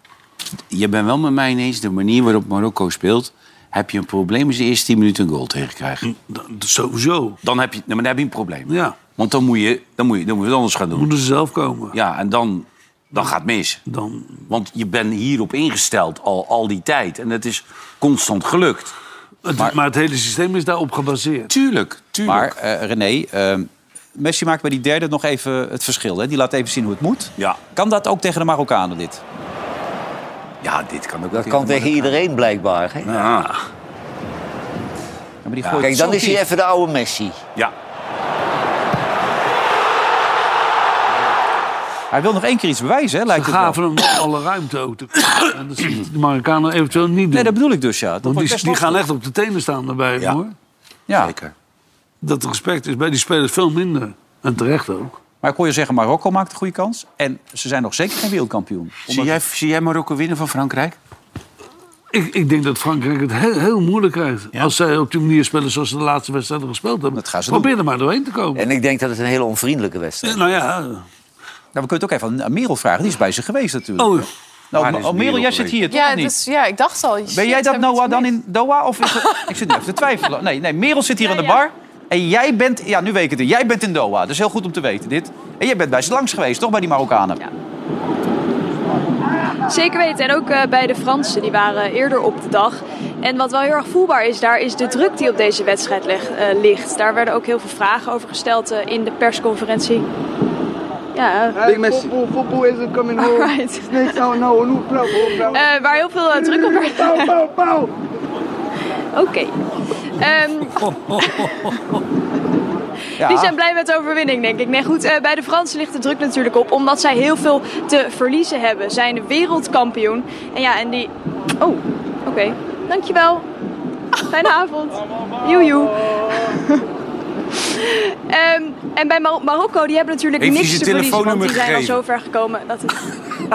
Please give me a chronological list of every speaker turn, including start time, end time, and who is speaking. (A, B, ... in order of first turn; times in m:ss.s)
0:00.7-0:06.0 A
0:06.0-0:07.4 B
0:07.4-0:11.1 A
0:08.7-0:09.0 B
0:10.9-0:12.0 B
0:11.9-0:13.8 A
0:13.9-0:14.4 B
0:14.5-0:18.9 A
0:19.4-0:21.5 B
0:21.5-0:22.5 A
0:22.2-0:29.2 C
0:30.6-0:32.2 A
0:31.3-0:33.1 D
0:33.0-0:33.6 A
0:35.4-0:36.4 C
0:35.8-0:37.4 D
0:42.1-0:43.8 C
0:43.3-0:47.5 B
0:47.3-0:49.0 C
0:48.2-0:50.5 B
0:51.1-0:51.3 C
0:51.1-0:51.5 A
0:52.2-0:55.2 B
0:55.4-0:59.4 C
0:59.1-1:01.0 A
1:02.1-1:08.7 B
1:07.1-1:07.7 C
1:08.5-1:10.5 D
1:10.2-1:11.0 B
1:11.7-1:16.3 C
1:14.0-1:14.3 B
1:14.7-1:15.8 A
1:15.9-1:18.3 E
1:17.3-1:27.4 C
1:21.2-1:21.6 F
1:29.7-1:40.0 F
1:41.1-1:41.6 F
1:41.5-1:45.6 G
1:43.2-1:44.1 F
1:45.5-1:47.4 F
1:46.3-1:47.9 G
1:49.1-1:49.5 F
1:50.2-1:51.5 F
1:50.8-1:51.2 B
1:53.2-1:53.5 C
1:53.2-2:03.4 F
2:04.3-2:06.8 F
2:07.8-2:13.0 F
2:10.4-2:12.0 A